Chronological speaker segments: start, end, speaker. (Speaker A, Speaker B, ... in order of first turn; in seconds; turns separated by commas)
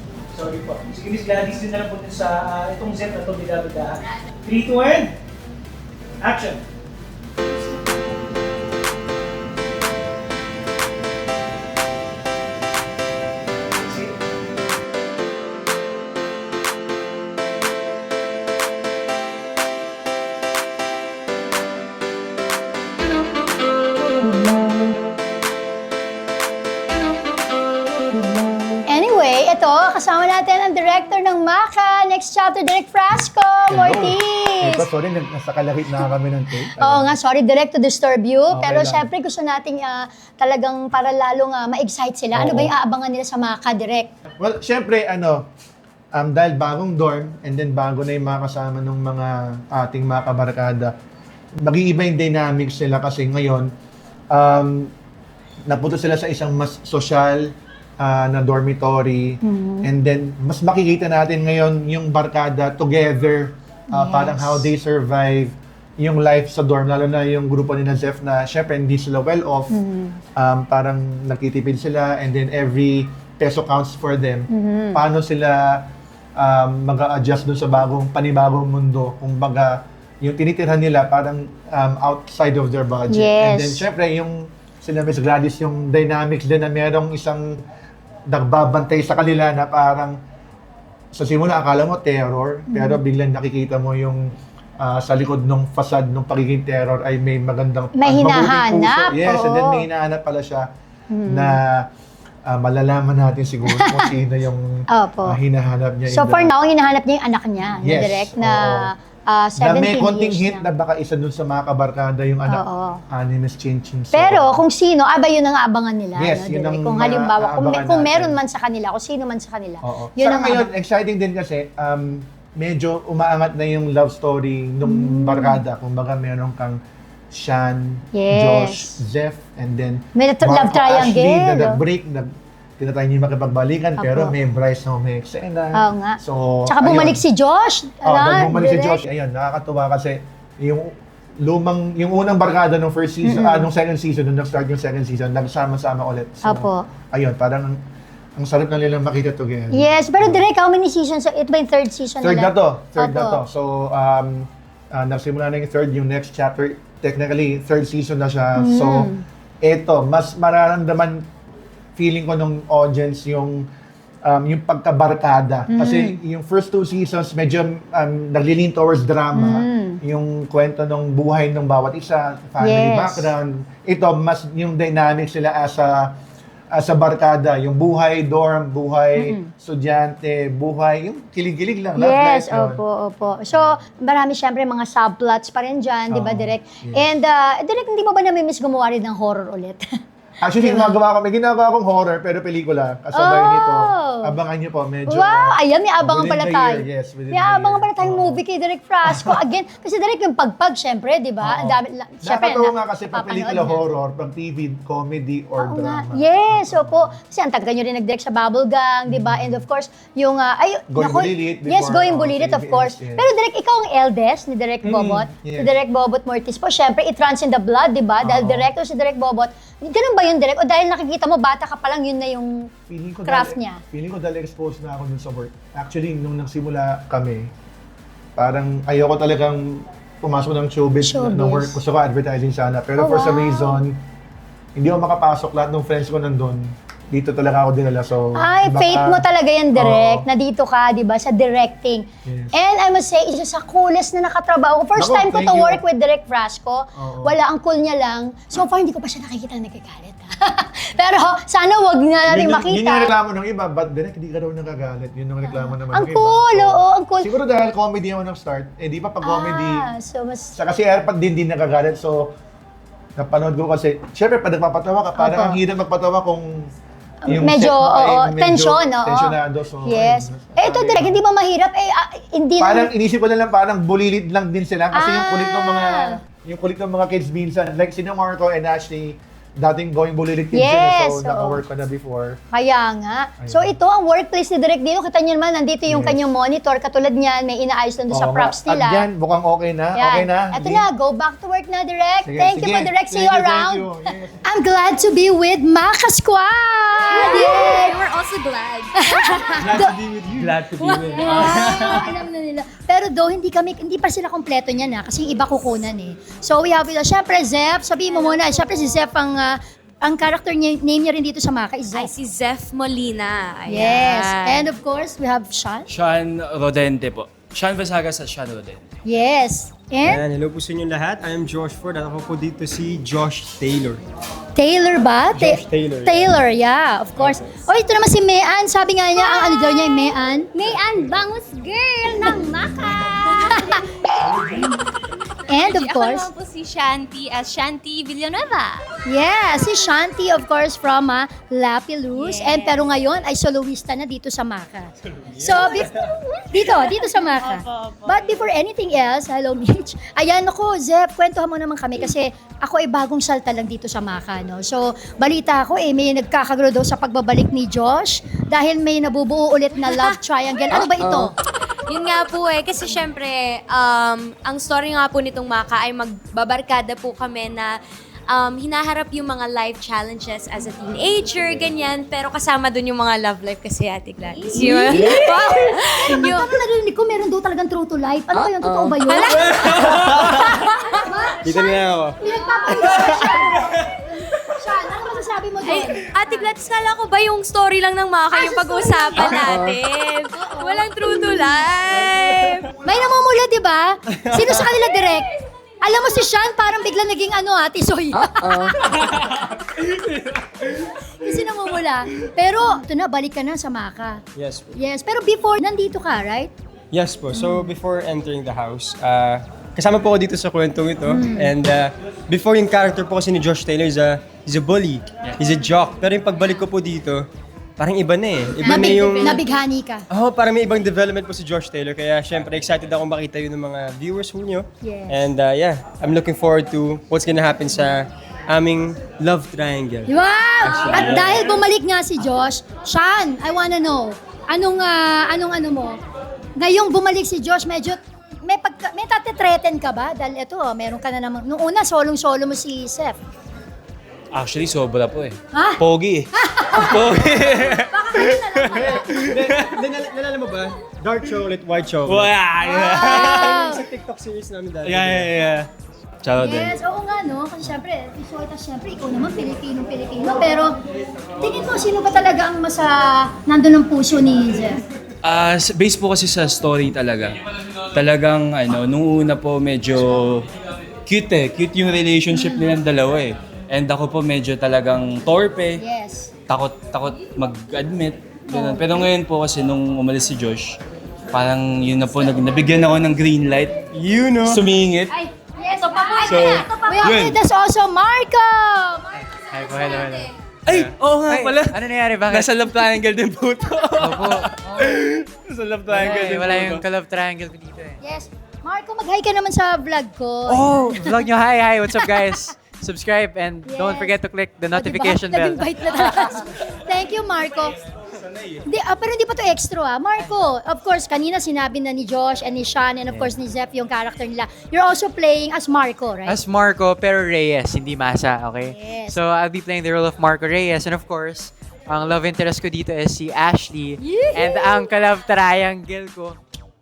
Speaker A: 0.3-5.1, Speaker A: 6.2-6.6, Speaker A: 13.8-14.1, Speaker B: 28.9-34.9, Speaker C: 33.7-37.1, Speaker B: 36.8-44.1, Speaker C: 38.5-39.1, Speaker C: 42.3-42.7, Speaker C: 44.4-45.5, Speaker C: 46.1-50.9, Speaker C: 51.6-53.7, Speaker C: 54.3-54.9, Speaker C: 55.7-69.7, Speaker B: 59.4-59.9, Speaker B: 63.9-64.7, Speaker B: 69.7-70.2, Speaker C: 70.4-87.6, Speaker B: 74.5-75.0, Speaker B: 83.1-83.8, Speaker C: 88.3-90.2, Speaker C: 91.1-100.7, Speaker B: 92.7-93.0, Speaker B: 98.0-99.9, Speaker B: 101.1-101.6, Speaker C: 101.3-101.9, Speaker C: 102.5-106.5, Speaker B: 103.7-104.1, Speaker B: 104.9-105.4, Speaker B: 106.1-110.7, Speaker C: 107.7-108.9, Speaker C: 109.6-114.6, Speaker B: 112.5-113.0, Speaker B: 114.1-120.7, Speaker C: 116.2-118.4, Speaker C: 119.8-126.8, Speaker B: 124.8-125.6, Speaker C: 127.3-137.2, Speaker B: 128.1-128.9, Speaker B: 130.2-131.8, Speaker B: 134.0-134.3, Speaker B: 135.8-139.0, Speaker C: 138.1-147.8, Speaker B: 143.2-143.7, Speaker B: 146.4-146.9, Speaker C: 148.4-150.4, Speaker B: 149.7-153.4, Speaker C: 152.2-159.1, Speaker B: 158.6-159.2, Speaker C: 159.6-161.3, Speaker C: 162.0-163.7, Speaker C: 164.2-176.2, Speaker B: 165.7-166.2, Speaker B: 169.3-170.0, Speaker B: 172.6-173.3, Speaker C: 176.7-182.8, Speaker B: 182.0-189.9, Speaker C: 183.5-183.8, Speaker C: 186.1-187.1, Speaker C: 190.4-198.4, Speaker B: 190.6-191.0, Speaker B: 193.2-194.3, Speaker B: 195.1-203.9, Speaker C: 199.1-199.4, Speaker C: 201.4-207.2, Speaker B: 205.6-222.7, Speaker C: 209.1-209.7, Speaker C: 210.9-213.3, Speaker C: 214.8-215.7, Speaker C: 218.2-218.7, Speaker C: 222.9-227.5, Speaker B: 223.2-223.8, Speaker C: 228.4-234.0, Speaker B: 231.0-231.8, Speaker B: 233.0-233.8, Speaker C: 234.8-239.2, Speaker B: 238.4-253.1, Speaker C: 239.8-240.3, Speaker C: 242.3-242.6, Speaker C: 245.0-245.8, Speaker C: 247.0-247.4, Speaker C: 252.3-259.9, Speaker B: 255.4-257.3, Speaker B: 259.2-260.5, Speaker C: 260.6-262.3, Speaker C: 263.2-266.7, Speaker B: 265.2-265.6, Speaker B: 267.2-272.9, Speaker C: 267.3-271.2, Speaker C: 272.6-282.4, Speaker B: 274.9-276.2, Speaker B: 280.5-281.6, Speaker B: 282.5-289.1, Speaker C: 283.4-283.8, Speaker C: 285.9-286.3, Speaker C: 288.1-290.9, Speaker B: 290.0-298.0, Speaker C: 292.2-294.5, Speaker D: 297.1-298.9, Speaker E: 297.3-297.8, Speaker B: 299.0-299.9, Speaker F: 299.6-300.6, Speaker G: 299.7-302.1, Speaker B: 301.0-312.1, Speaker D: 311.9-314.7, Speaker B: 313.7-315.9, Speaker G: 315.9-318.9, Speaker B: 319.1-320.2, Speaker F: 320.0-324.0, Speaker B: 324.6-330.5, Speaker F: 325.3-326.4, Speaker E: 329.2-330.0, Speaker E: 330.5-333.8, Speaker B: 333.5-333.8, Speaker B: 335.5-336.3, Speaker D: 335.5-338.8, Speaker B: 339.1-346.0, Speaker D: 342.1-342.8, Speaker F: 345.2-346.1, Speaker B: 346.5-361.3, Speaker D: 347.2-348.3, Speaker D: 359.8-360.2, Speaker F: 361.0-361.3, Speaker D: 361.9-367.8, Speaker D: 368.3-376.4, Speaker E: 374.4-375.5, Speaker B: 374.5-386.1, Speaker F: 374.9-375.2, Speaker D: 379.0-379.8, Speaker F: 379.8-380.5, Speaker G: 379.9-380.3, Speaker F: 381.4-382.2, Speaker E: 382.2-383.3, Speaker D: 382.3-382.8, Speaker F: 382.9-383.2, Speaker D: 385.6-392.7, Speaker B: 389.0-389.5, Speaker F: 389.4-389.7, Speaker B: 390.5-390.9, Speaker B: 392.8-395.3, Speaker F: 394.1-394.6, Speaker B: 395.8-399.0, Speaker F: 398.4-398.8, Speaker G: 398.5-400.2, Speaker B: 401.2-404.2, Speaker F: 404.4-404.7, Speaker B: 404.8-406.5, Speaker F: 406.9-417.3, Speaker B: 407.3-407.7, Speaker B: 411.1-411.5, Speaker F: 417.8-419.5, Speaker B: 418.6-420.1, Speaker F: 420.1-430.1, Speaker B: 424.8-425.3, Speaker B: 430.1-436.0, Speaker G: 430.6-431.5, Speaker F: 430.7-431.3, Speaker B: 436.6-443.2, Speaker G: 444.3-449.8, Speaker B: 445.5-445.8, Speaker B: 446.3-449.3, Speaker F: 448.8-455.5, Speaker G: 452.1-453.7, Speaker B: 452.6-453.8, Speaker G: 454.8-455.7, Speaker G: 456.2-456.8, Speaker B: 456.4-460.8, Speaker B: 461.4-464.8, Speaker G: 465.2-470.5, Speaker G: 471.1-475.8, Speaker B: 472.4-472.6, Speaker B: 475.8-476.3, Speaker G: 476.5-480.8, Speaker B: 478.5-479.0, Speaker G: 481.3-483.8, Speaker F: 483.9-484.6, Speaker G: 484.4-485.1, Speaker B: 485.1-489.2, Speaker E: 485.6-487.2, Speaker G: 486.3-487.4, Speaker H: 489.2-492.7, Speaker E: 489.7-490.2, Speaker G: 490.7-496.9, Speaker H: 494.0-495.0, Speaker H: 495.9-498.0, Speaker B: 498.0-501.3, Speaker H: 500.5-506.4, Speaker B: 503.6-504.2, Speaker B: 504.7-507.8, Speaker B: 508.7-516.4, Speaker H: 516.3-526.4, Speaker B: 518.7-519.2, Speaker B: 524.0-524.8